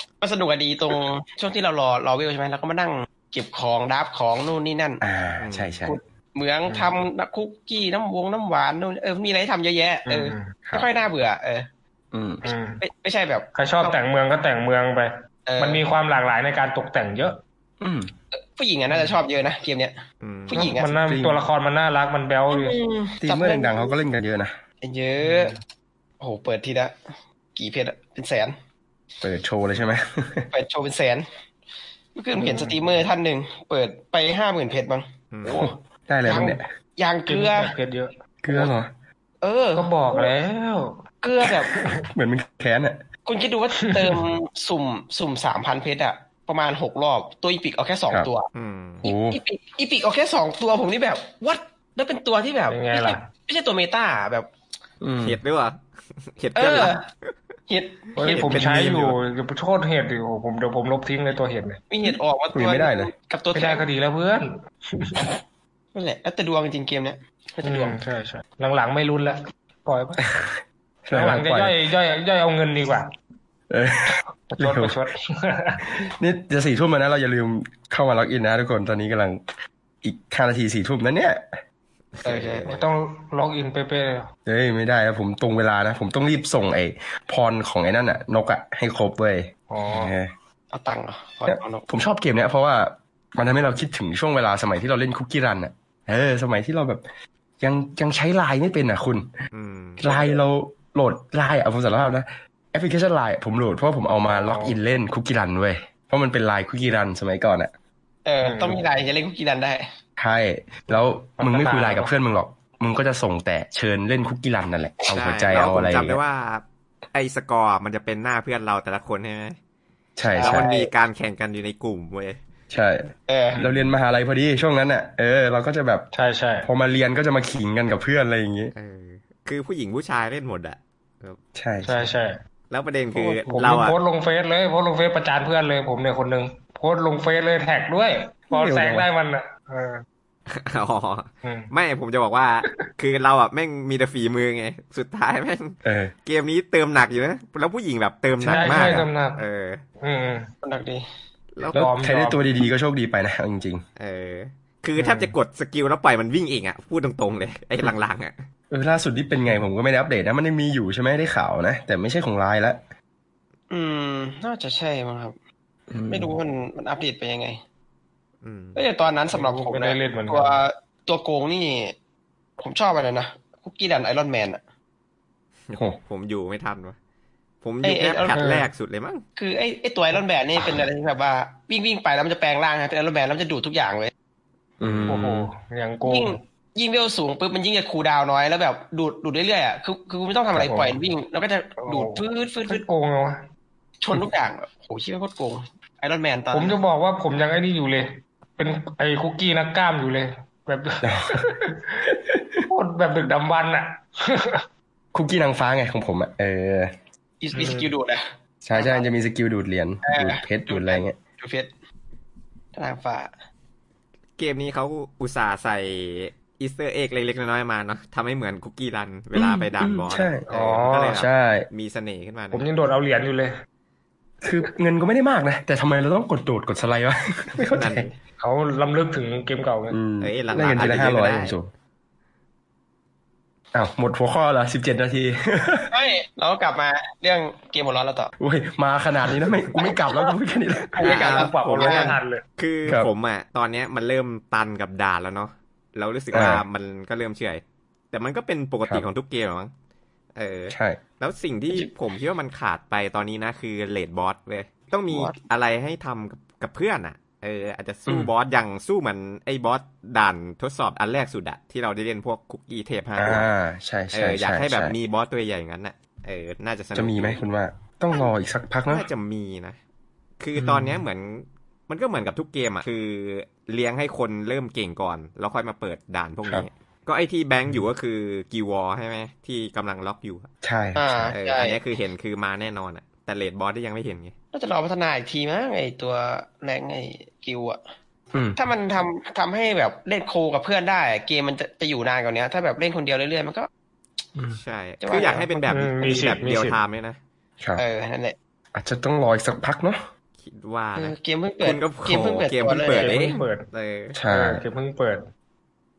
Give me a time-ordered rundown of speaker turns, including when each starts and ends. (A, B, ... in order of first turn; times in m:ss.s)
0:00.2-0:05.0 A
0:05.0-0:06.0 B
0:05.4-0:05.8 C
0:05.9-0:11.7 A
0:06.7-0:06.9 D
0:10.1-0:10.5 D
0:12.1-0:12.4 B
0:12.4-0:12.8 D
0:12.8-0:14.0 A
0:13.6-0:17.4 D
0:15.5-0:15.8 A
0:17.8-0:18.1 B
0:18.3-0:20.9 A
0:20.2-0:20.7 C
0:20.5-0:22.8 D
0:20.8-0:21.4 B
0:22.5-0:24.0 A
0:23.2-0:24.6 B
0:24.8-0:25.6 A
0:25.2-0:25.6 D
0:26.2-0:27.0 A
0:27.6-0:28.6 A
0:29.2-0:30.5 B
0:30.5-0:31.3 A
0:32.2-0:35.7 A
0:32.4-0:32.8 D
0:35.3-0:35.7 C
0:35.5-0:36.7 B
0:36.3-0:37.7 A
0:37.3-0:38.2 D
0:38.4-0:38.9 B
0:39.4-0:40.3 A
0:39.8-0:41.0 D
0:41.2-0:41.8 A
0:41.7-0:42.0 D
0:41.9-0:43.0 B
0:43.3-0:48.5 A
0:43.8-0:44.2 D
0:48.5-0:49.0 C
0:49.0-0:49.4 B
0:49.0-0:54.5 A
0:52.7-0:53.2 D
0:55.0-0:55.4 B
0:55.2-0:57.3 C
0:56.6-0:57.0 A
0:57.7-0:58.7 A
0:58.2-1:01.8 D
0:58.2-0:59.2 C
1:01.9-1:03.8 A
1:02.5-1:03.1 B
1:03.5-1:05.3 D
1:06.0-1:08.0 A
1:07.6-1:10.2 D
1:10.2-1:11.8 B
1:11.1-1:13.1 D
1:13.7-1:15.0 B
1:14.5-1:15.8 D
1:15.8-1:19.4 B
1:20.0-1:21.6 B
1:22.2-1:22.9 C
1:22.2-1:22.8 A
1:22.7-1:24.3 D
1:24.5-1:30.3 B
1:29.7-1:30.2 D
1:30.7-1:31.9 A
1:31.5-1:37.0 B
1:37.6-1:39.3 B
1:39.5-1:40.0 C
1:40.0-1:47.7 B
1:40.0-1:40.4 A
1:44.4-1:44.8 D
1:48.2-1:49.9 A
1:48.4-1:48.8 D
1:50.2-1:56.2 B
1:51.4-1:52.1 D
1:55.1-1:59.6 C
2:00.2-2:00.7 B
2:00.4-2:00.9 A
2:00.4-2:02.4 C
2:02.7-2:06.1 B
2:03.3-2:03.6 A
2:03.6-2:03.9 D
2:06.1-2:06.7 D
2:06.6-2:08.7 B
2:08.7-2:11.4 C
2:11.6-2:12.0 B
2:11.8-2:12.4 D
2:12.7-2:14.0 C
2:13.5-2:20.0 D
2:18.5-2:19.1 B
2:20.5-2:29.8 C
2:21.4-2:21.7 D
2:25.8-2:26.1 B
2:28.4-2:29.1 B
2:28.5-2:29.4 D
2:30.0-2:30.5 D
2:30.6-2:31.1 A
2:31.7-2:32.4 D
2:31.7-2:33.8 B
2:34.0-2:38.4 C
2:38.7-2:42.8 B
2:43.7-2:45.4 A
2:45.9-2:46.4 B
2:46.1-2:47.6 A
2:48.4-2:48.8 C
2:48.8-2:52.0 A
2:49.3-2:50.6 D
2:52.6-2:54.6 A
2:55.7-2:57.0 C
2:57.6-2:59.2 C
2:57.8-2:58.4 A
2:58.3-2:58.7 D
2:59.4-3:04.1 A
3:04.8-3:05.5 B
3:04.8-3:05.2 C
3:05.1-3:06.4 D
3:06.0-3:12.8 A
3:10.5-3:10.9 B
3:11.8-3:13.4 D
3:14.0-3:16.8 A
3:16.5-3:22.1 D
3:21.0-3:21.5 B
3:22.1-3:22.6 B
3:22.7-3:24.6 D
3:25.1-3:27.0 B
3:27.4-3:29.1 A
3:27.5-3:27.9 D
3:28.6-3:31.2 B
3:30.0-3:31.7 A
3:32.7-3:33.3 A
3:34.4-3:42.7 C
3:39.4-3:40.4 B
3:40.5-3:41.2 D
3:41.1-3:41.7 B
3:42.5-3:43.6 D
3:44.4-3:48.1 B
3:47.7-3:48.2 C
3:48.4-3:50.0 D
3:49.9-3:51.7 B
3:50.2-3:51.6 C
3:53.7-3:56.0 B
3:55.9-3:58.3 A
3:58.4-4:01.1 B
3:59.8-4:00.3 A
4:01.0-4:02.2 A
4:01.0-4:02.4 D
4:01.0-4:09.7 C
4:06.3-4:06.6 B
4:10.4-4:23.5 C
4:10.7-4:11.0 B
4:15.1-4:15.4 A
4:23.2-4:25.0 B
4:24.1-4:27.4 C
4:27.0-4:29.1 B
4:28.9-4:29.8 C
4:30.4-4:40.5 C
4:30.6-4:31.0 B
4:40.6-4:41.4 B
4:41.0-4:41.8 A
4:41.3-4:44.3 C
4:44.5-4:47.8 A
4:48.3-4:48.6 B
4:48.6-4:53.7 A
4:54.6-4:57.2 C
4:55.0-4:55.7 A
4:55.7-4:56.8 D
4:57.8-4:58.4 A
4:58.8-5:00.0 B
5:00.4-5:04.2 C
5:01.0-5:03.2 A
5:02.8-5:03.7 D
5:04.2-5:04.6 B
5:04.3-5:05.2 D